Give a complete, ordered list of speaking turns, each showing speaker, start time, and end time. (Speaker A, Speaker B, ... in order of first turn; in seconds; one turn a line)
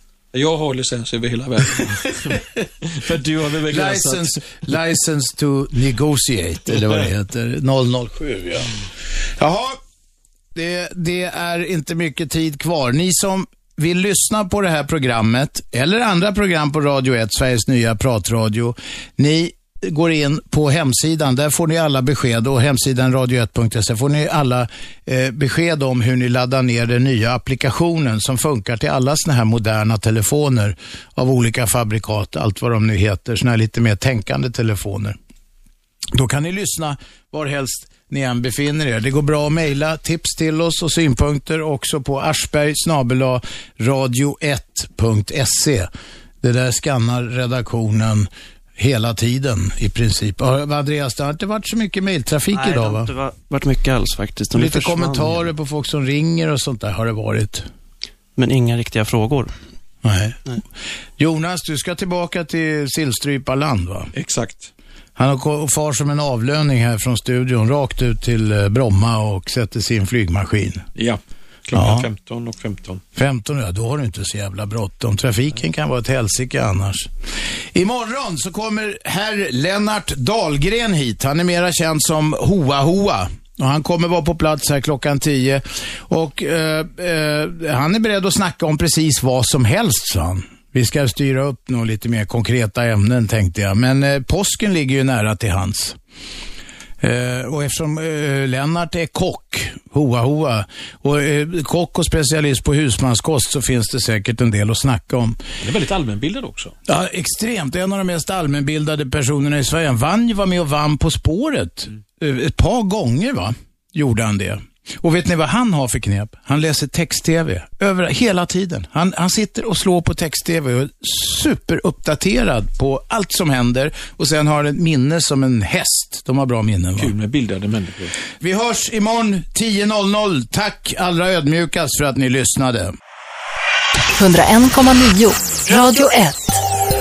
Speaker A: 0.3-4.7
Speaker B: 3.7-8.7
Speaker A: 6.7-7.1
Speaker B: 9.4-9.8
Speaker B: 10.5-35.1
Speaker B: 36.1-45.9
Speaker B: 46.4-53.1
Speaker C: 52.5-55.5
Speaker B: 54.5-57.6
Speaker C: 58.4-59.5
Speaker B: 60.0-60.4
Speaker B: 61.2-64.1
Speaker A: 64.1-64.7
Speaker B: 65.2-70.8
Speaker A: 71.0-73.0
Speaker B: 71.7-72.1
Speaker B: 73.1-77.1
Speaker B: 77.7-96.0
Speaker B: 97.0-105.4
Speaker A: 105.6-106.8
Speaker B: 106.9-127.1
Speaker A: 127.0-128.1
Speaker B: 128.4-132.9
Speaker D: 134.2-136.6